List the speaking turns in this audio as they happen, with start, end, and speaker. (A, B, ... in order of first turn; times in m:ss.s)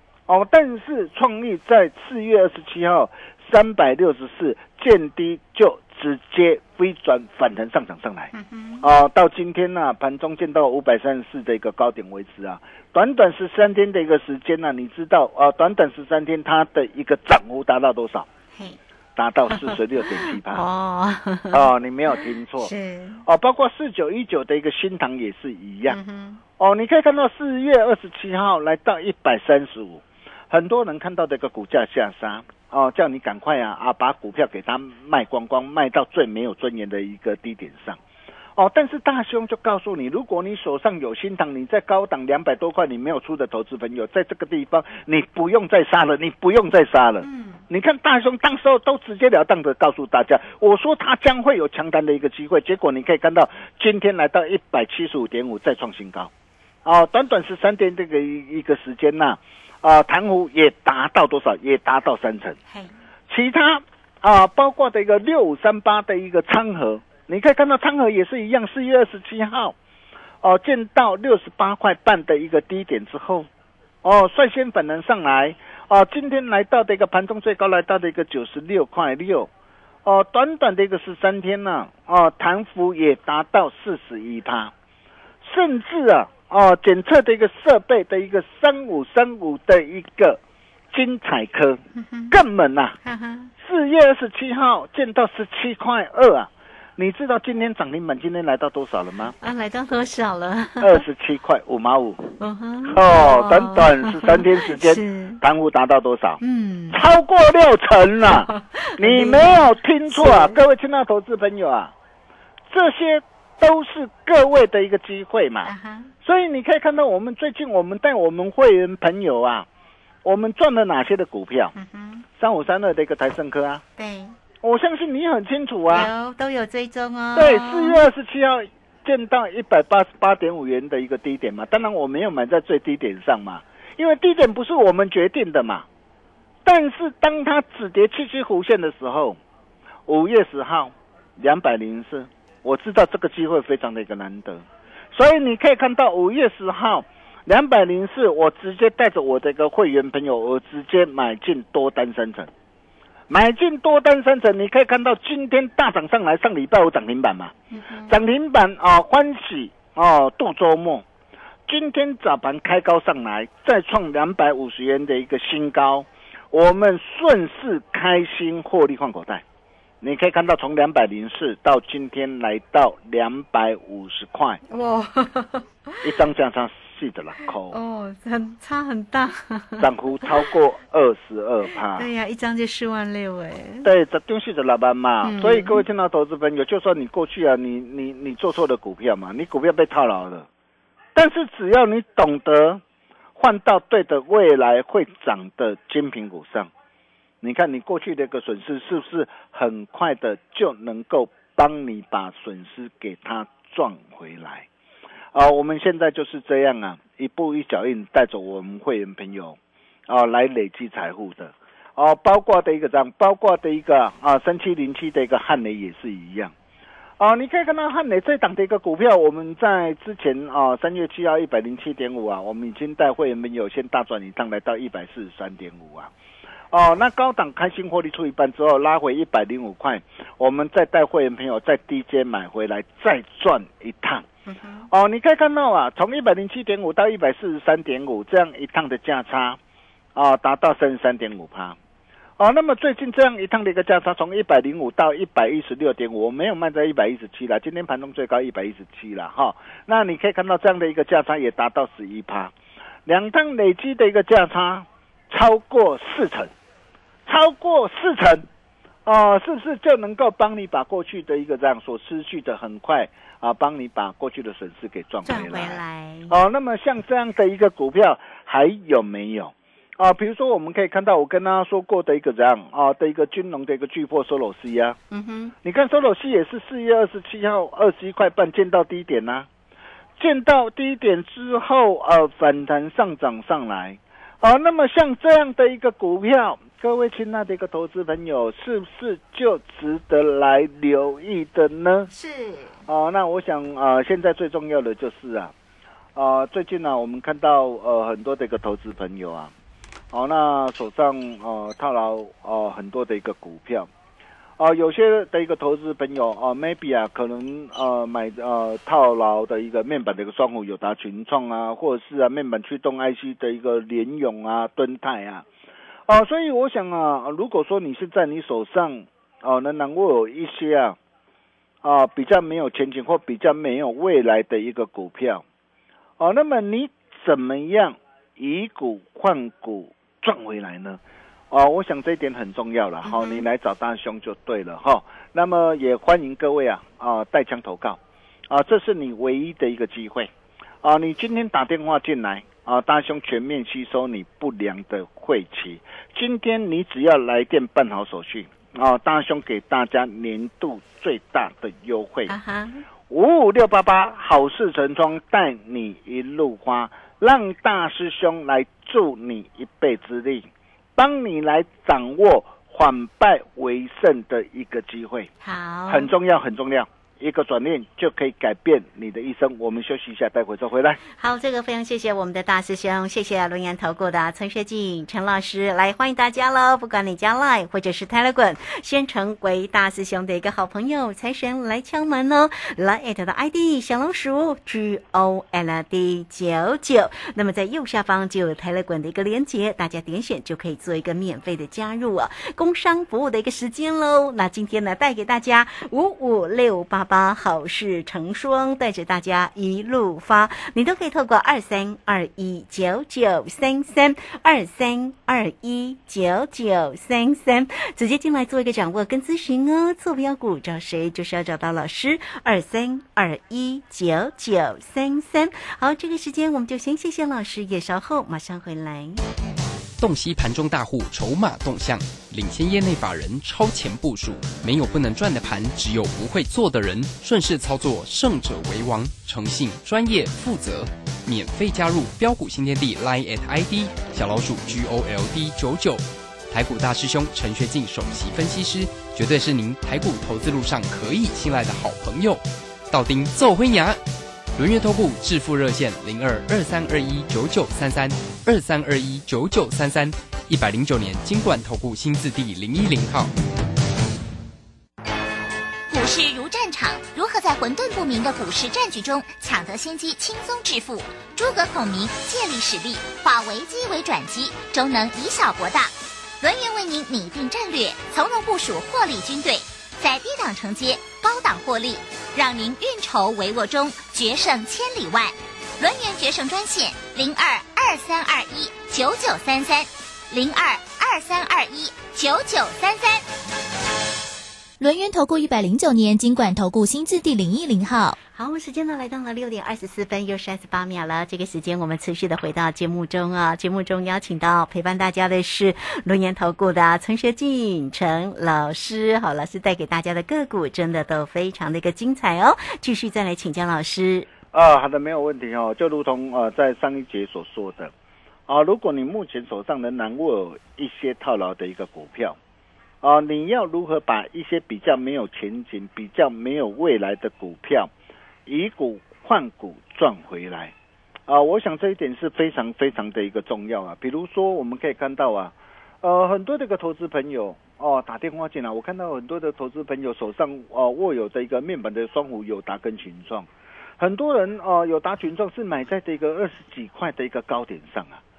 0:00.3-0:18.3 A
0:08.3-0:08.8 B
0:18.5-0:18.8 B
0:19.2-0:20.6 A
0:19.5-0:21.6 B
0:21.5-0:22.7 A
0:22.6-0:23.2 B
0:23.2-0:26.0 A
0:25.9-0:26.4 B
0:26.6-0:38.0 A
0:38.6-0:56.3 A
0:47.2-0:47.6 B
0:56.8-1:02.6 A
1:03.3-1:09.8 A
1:10.4-1:13.5 A
1:14.0-1:19.5 A
1:20.0-1:24.7 A
1:25.4-1:30.4 A
1:30.9-1:33.0 A
1:32.0-1:32.4 B
1:33.0-1:33.5 B
1:33.6-1:39.4 A
1:39.4-1:41.0 B
1:40.8-1:51.9 A
1:42.4-1:45.4 B
1:46.4-1:47.0 B
1:48.3-1:50.6 B
1:52.7-1:55.7 A
1:55.6-1:56.1 B
1:56.2-1:59.7 A
2:00.2-2:01.7 A
2:01.8-2:02.3 B
2:02.4-2:03.8 A
2:04.0-2:04.4 B
2:04.6-2:06.1 A
2:05.9-2:08.0 B
2:07.4-2:15.9 A
2:16.6-2:19.4 A
2:20.1-2:32.5 A
2:33.3-2:37.5 A
2:37.7-2:38.2 B
2:38.1-2:41.0 A
2:41.7-2:49.4 A
2:50.0-2:54.6 A
2:54.7-2:56.0 B
2:56.0-2:57.8 A
2:57.7-2:59.9 B
2:59.8-3:02.1 A
3:01.9-3:03.9 B
3:03.8-3:10.5 A
3:05.2-3:05.8 B
3:11.2-3:12.8 A
3:13.4-3:16.7 A
3:17.4-3:24.7 A
3:25.3-3:36.5 A
3:37.2-3:46.1 A
3:46.7-3:54.3 A
3:54.5-3:54.9 B
3:54.9-3:59.6 A
4:00.2-4:01.8 A
4:02.4-4:12.5 A
4:13.1-4:16.5 A
4:17.3-4:18.5 A
4:19.1-4:35.0 A
4:25.2-4:26.4 B
4:35.1-4:35.6 B
4:35.6-4:39.5 A
4:40.2-4:52.1 A
4:52.1-4:52.8 B
4:52.9-4:55.5 A
4:56.2-4:59.5 A
5:00.1-5:03.9 A
5:04.6-5:15.4 A
5:16.1-5:21.0 A
5:21.8-5:25.4 A
5:26.2-5:31.0 A
5:31.5-5:40.3 A
5:33.0-5:33.5 B
5:40.8-5:52.4 A
5:52.3-5:52.9 B
5:53.1-6:05.3 A
6:05.4-6:06.1 B
6:05.9-6:11.0 A
6:11.2-6:59.2 B
7:00.0-7:24.0 C
7:24.6-7:33.3 C
7:35.9-8:03.2 D
8:04.8-8:08.2 E
8:08.4-8:24.3 B
8:24.5-8:27.9 A
8:28.5-8:32.4 A
8:33.0-8:37.9 A
8:38.5-8:40.7 A
8:41.3-8:53.5 A
8:54.0-8:58.2 A